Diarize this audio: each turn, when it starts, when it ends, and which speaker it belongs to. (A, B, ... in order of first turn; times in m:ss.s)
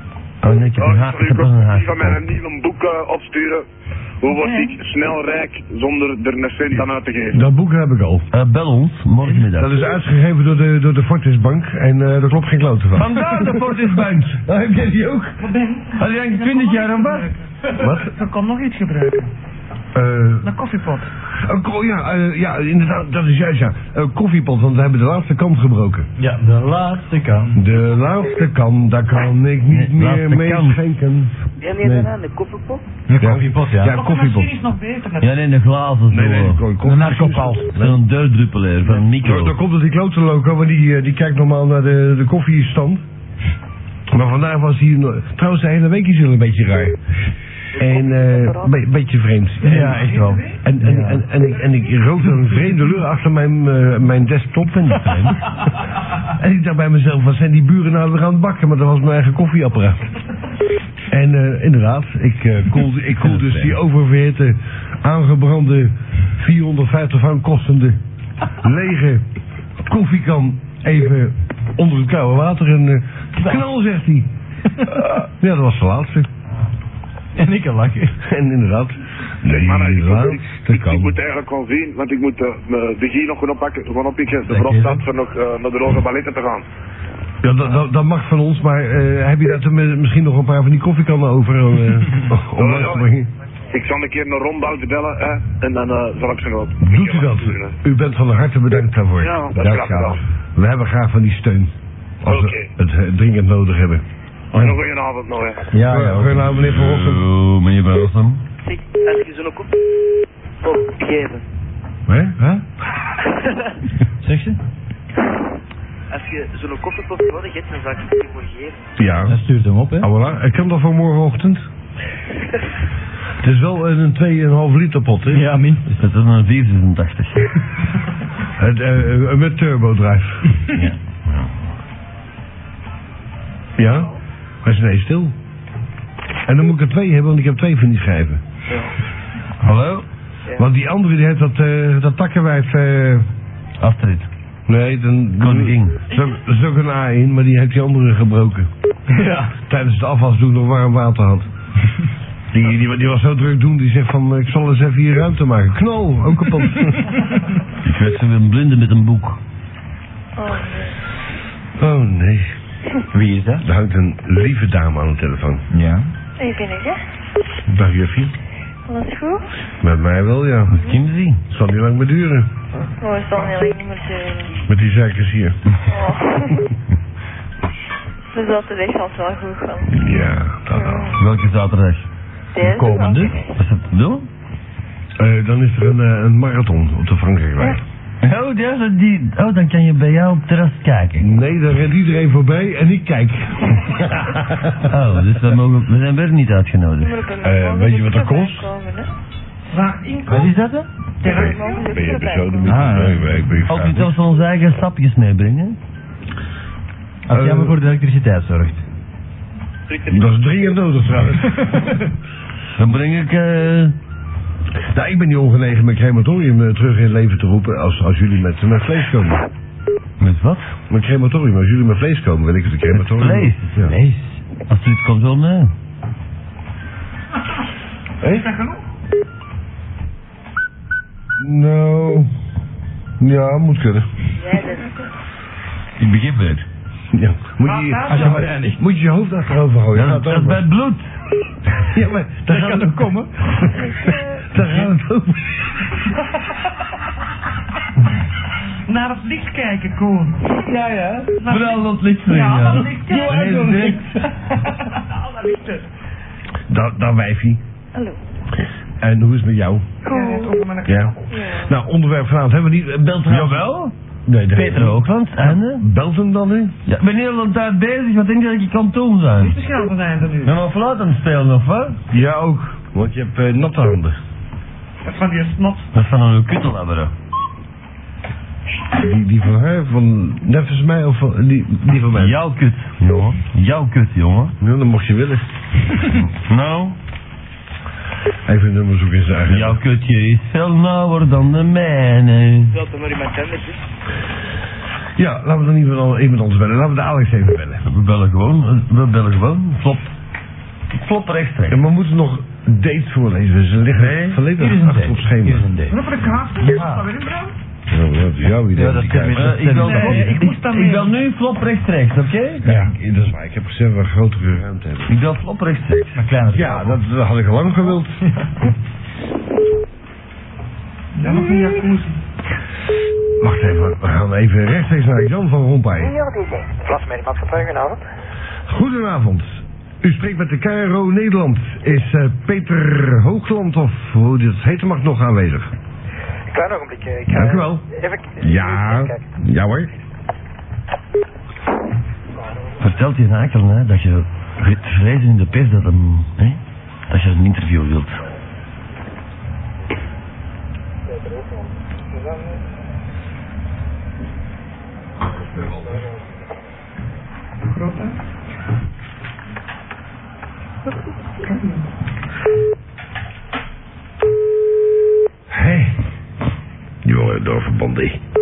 0:00.4-0:02.2 A
0:00.8-0:03.6 B
0:04.2-0:07.4 B
0:04.3-0:04.8 C
0:07.3-0:08.3 D
0:08.3-0:09.8 A
0:09.5-0:13.7 D
0:12.9-0:14.5 A
0:14.4-0:15.3 D
0:15.4-0:19.3 C
0:15.9-0:17.3 A
0:17.8-0:18.1 D
0:19.9-0:20.5 D
0:20.4-0:21.1 C
0:21.3-0:26.1 D
0:26.2-0:27.6 E
0:27.6-0:32.1 D
0:29.7-0:30.8 A
0:31.6-0:32.8 F
0:33.1-0:34.0 E
0:33.2-0:34.5 D
0:33.8-0:35.4 C
0:35.2-0:36.6 A
0:36.1-0:38.0 D
0:36.8-0:37.7 E
0:37.7-0:39.6 A
0:39.1-0:43.0 D
0:44.1-0:47.0 D
0:47.8-0:55.5 D
0:47.8-0:48.7 F
0:49.6-0:51.2 E
0:49.8-0:50.5 C
0:56.3-1:00.0 D
1:01.1-1:08.0 D
1:03.3-1:03.7 A
1:08.6-1:09.2 D
1:09.8-1:14.3 D
1:15.4-1:16.3 D
1:17.4-1:18.1 E
1:18.2-1:21.2 D
1:19.5-1:26.6 B
1:24.5-1:25.0 E
1:27.4-1:33.3 D
1:32.5-1:33.0 B
1:33.7-1:37.7 B
1:36.8-1:44.8 D
1:39.2-1:40.2 B
1:42.2-1:42.7 B
1:44.5-1:45.7 B
1:45.7-1:46.5 E
1:45.8-1:47.3 D
1:46.5-1:48.4 A
1:48.6-1:49.8 F
1:50.6-1:51.4 F
1:52.1-1:52.4 D
1:52.4-1:52.6 E
1:54.2-1:54.6 E
1:56.1-1:58.8 F
1:59.0-1:59.4 D
1:59.3-2:00.1 E
2:00.0-2:01.7 D
2:03.4-2:05.5 D
2:05.3-2:05.9 E
2:05.9-2:07.5 A
2:08.6-2:10.5 D
2:10.7-2:11.5 A
2:13.8-2:14.1 D
2:14.6-2:15.3 D
2:16.4-2:18.4 D
2:18.7-2:18.9 F
2:19.6-2:20.0 A
2:20.6-2:23.3 D
2:23.8-2:24.3 A
2:24.7-2:28.7 D
2:25.4-2:26.0 A
2:29.1-2:29.5 E
2:29.7-2:31.5 D
2:32.5-2:37.2 D
2:37.8-2:39.4 A
2:40.4-2:41.0 G
2:41.8-2:42.5 D
2:43.1-2:43.6 E
2:43.6-2:45.6 D
2:45.7-2:46.1 E
2:46.4-2:47.0 G
2:47.7-2:48.3 D
2:48.9-2:49.4 G
2:49.8-2:50.8 D
2:50.7-2:51.4 A
2:51.5-2:52.5 D
2:53.0-2:54.6 G
2:54.7-2:55.6 D
2:55.9-2:56.6 G
2:58.3-3:00.1 G
2:59.9-3:01.2 D
3:00.7-3:01.2 G
3:01.2-3:02.0 A
3:02.5-3:03.3 G
3:02.6-3:03.4 E
3:03.5-3:04.3 A
3:05.2-3:07.8 D
3:08.2-3:11.3 A
3:11.2-3:14.8 D
3:14.8-3:17.2 A
3:17.0-3:19.1 G
3:17.4-3:18.7 D
3:19.7-3:20.6 C
3:20.3-3:20.9 E
3:21.2-3:21.9 C
3:21.2-3:24.1 D
3:21.3-3:22.9 G
3:22.6-3:23.4 E
3:23.6-3:25.8 A
3:27.3-3:28.8 E
3:27.3-3:27.8 D
3:29.9-3:30.5 F
3:30.1-3:31.7 D
3:31.6-3:31.9 E
3:32.8-3:33.9 A
3:34.9-3:39.4 D
3:40.2-3:40.7 A
3:40.9-3:44.0 D
3:42.9-3:44.0 A
3:43.8-3:44.4 E
3:44.6-3:45.7 A
3:48.2-3:48.8 C
3:51.4-3:52.3 D
3:53.2-3:54.1 D
3:54.4-3:54.8 G
3:56.0-3:56.6 A
3:57.1-4:00.6 D
3:57.6-3:58.4 C
3:58.1-3:58.8 E
3:59.9-4:01.1 A
4:01.8-4:03.2 D
4:02.5-4:03.3 E
4:03.7-4:05.4 D
4:03.8-4:04.4 G
4:08.9-4:15.8 C
4:11.3-4:14.1 A
4:13.2-4:13.8 D
4:16.7-4:17.6 D
4:17.9-4:18.2 G
4:19.0-4:19.9 D
4:20.0-4:20.6 G
4:20.0-4:21.2 C
4:20.8-4:23.7 D
4:21.3-4:21.7 G
4:23.2-4:23.9 A
4:24.3-4:26.8 D
4:24.5-4:25.8 A
4:26.8-4:29.7 A
4:29.4-4:30.6 C
4:30.4-4:32.0 A
4:32.1-4:34.2 D
4:35.0-4:35.9 C
4:35.9-4:37.1 A
4:39.0-4:42.4 D
4:42.1-4:44.5 A
4:44.6-4:45.5 D
4:46.1-4:47.0 A
4:48.5-4:49.8 D
4:49.5-4:52.7 A
4:52.6-4:53.8 F
4:55.2-4:57.8 D
4:57.9-5:00.1 A
5:00.9-5:01.8 A
5:01.7-5:05.7 D
5:04.0-5:04.4 A
5:04.5-5:06.0 E
5:05.9-5:07.5 C
5:06.7-5:06.9 E
5:07.9-5:09.8 D
5:08.7-5:10.6 E
5:09.3-5:12.8 A
5:09.8-5:11.1 C
5:12.6-5:15.1 D
5:15.1-5:16.2 A
5:16.2-5:17.0 E
5:16.5-5:18.2 D
5:21.1-5:22.2 C
5:23.4-5:26.2 D
5:26.8-5:28.0 H
5:28.7-5:35.7 D
5:36.5-5:39.2 H
5:37.3-5:37.8 D
5:38.4-5:39.9 D
5:42.8-5:48.2 A
5:57.6-5:58.2 C
6:01.4-6:01.8 C
6:05.5-6:06.0 D
6:07.0-6:08.2 D